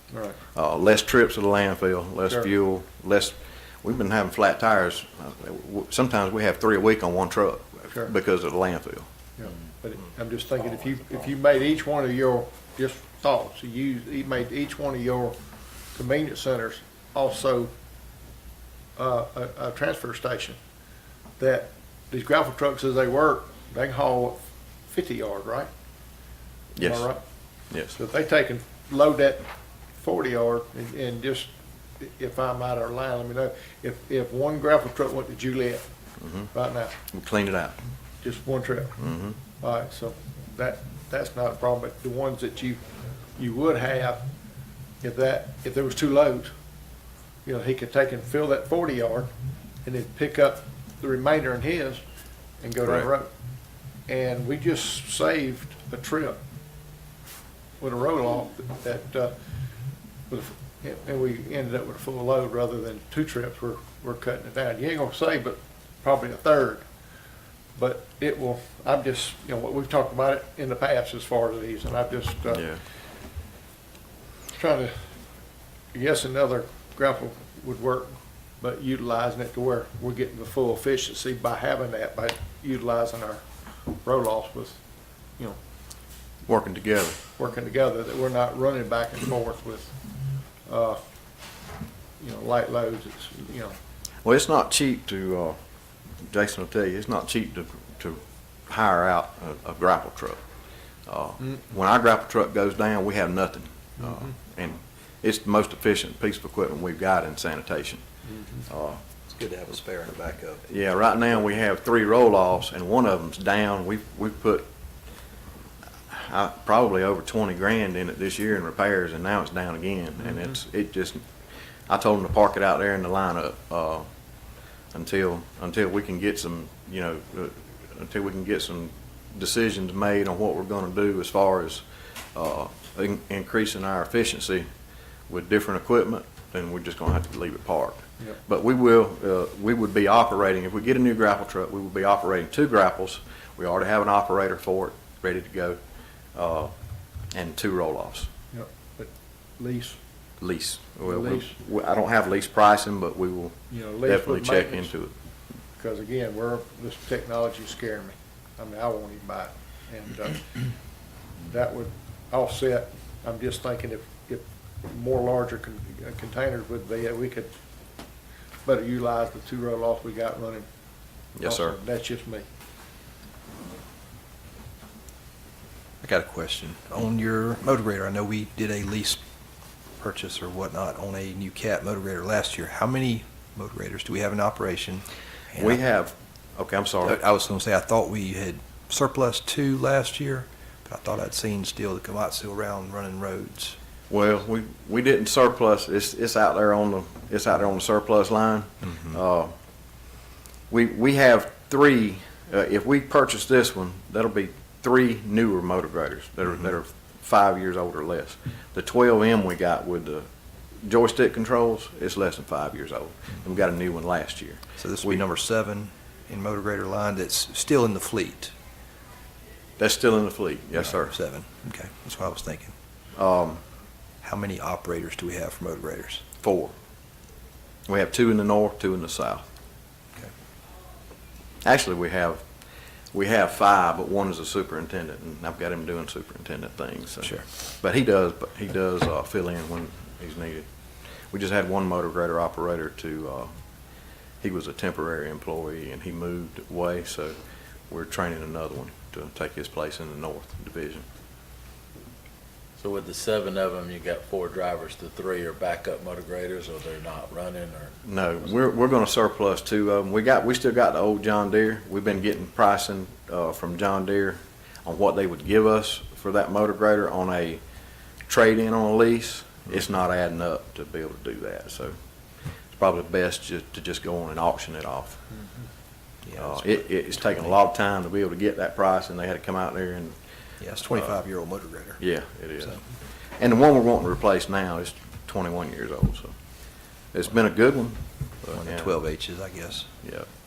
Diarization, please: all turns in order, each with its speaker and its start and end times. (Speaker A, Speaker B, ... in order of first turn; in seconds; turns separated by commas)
Speaker A: 0.1-0.4, Speaker B: 0.5-9.1, Speaker A: 9.4-15.4, Speaker A: 15.9-17.7, Speaker A: 18.9-20.6, Speaker A: 21.4-25.7, Speaker B: 26.8-27.1, Speaker A: 26.8-27.2, Speaker B: 27.7-28.0, Speaker A: 27.9-35.8, Speaker B: 36.2-36.5, Speaker A: 36.5-37.0, Speaker B: 37.1-37.8, Speaker A: 38.2-39.0, Speaker B: 39.0-39.4, Speaker A: 39.5-42.8, Speaker A: 43.4-44.2, Speaker A: 45.0-46.5, Speaker A: 47.5-49.3, Speaker A: 49.8-52.0, Speaker A: 52.6-53.3, Speaker A: 54.1-56.4, Speaker A: 57.8-59.3, Speaker A: 60.3-66.8, Speaker A: 67.8-72.6, Speaker B: 72.5-72.8, Speaker A: 74.5-74.9, Speaker A: 75.9-84.8, Speaker B: 86.5-87.2, Speaker A: 87.3-90.0, Speaker A: 90.7-91.0, Speaker A: 92.2-93.8, Speaker B: 94.2-95.6, Speaker B: 96.2-100.4, Speaker B: 101.1-108.0, Speaker B: 108.6-109.0, Speaker C: 109.3-110.7, Speaker B: 110.7-114.7, Speaker B: 116.1-121.2, Speaker B: 121.9-124.1, Speaker B: 124.9-131.8, Speaker B: 132.3-134.7, Speaker B: 135.3-145.8, Speaker B: 146.3-146.7, Speaker B: 147.3-148.3, Speaker A: 148.5-150.0, Speaker B: 150.4-155.1, Speaker A: 151.1-151.5, Speaker A: 153.7-154.9, Speaker A: 155.8-160.7, Speaker A: 161.5-167.5, Speaker A: 168.7-170.7, Speaker B: 171.4-171.8, Speaker A: 171.4-172.4, Speaker C: 176.0-179.2, Speaker C: 180.0-185.8, Speaker B: 185.6-187.2, Speaker C: 187.0-193.8, Speaker B: 194.1-199.5, Speaker B: 200.7-210.3, Speaker B: 210.8-215.2, Speaker C: 214.8-218.5, Speaker B: 219.8-221.1, Speaker C: 220.8-222.8, Speaker B: 223.2-223.6, Speaker C: 224.2-226.2, Speaker B: 226.4-226.7, Speaker B: 227.9-229.5, Speaker B: 231.6-232.4, Speaker B: 233.1-240.7, Speaker B: 241.3-243.5, Speaker B: 244.4-247.4, Speaker B: 247.9-251.1, Speaker D: 252.8-258.0, Speaker B: 258.0-267.6, Speaker B: 268.2-271.9, Speaker B: 272.7-275.2, Speaker C: 276.2-276.8, Speaker B: 276.4-280.1, Speaker C: 280.6-282.0, Speaker B: 282.0-282.9, Speaker B: 283.4-286.3, Speaker B: 287.1-288.9, Speaker C: 288.5-289.9, Speaker B: 290.0-290.3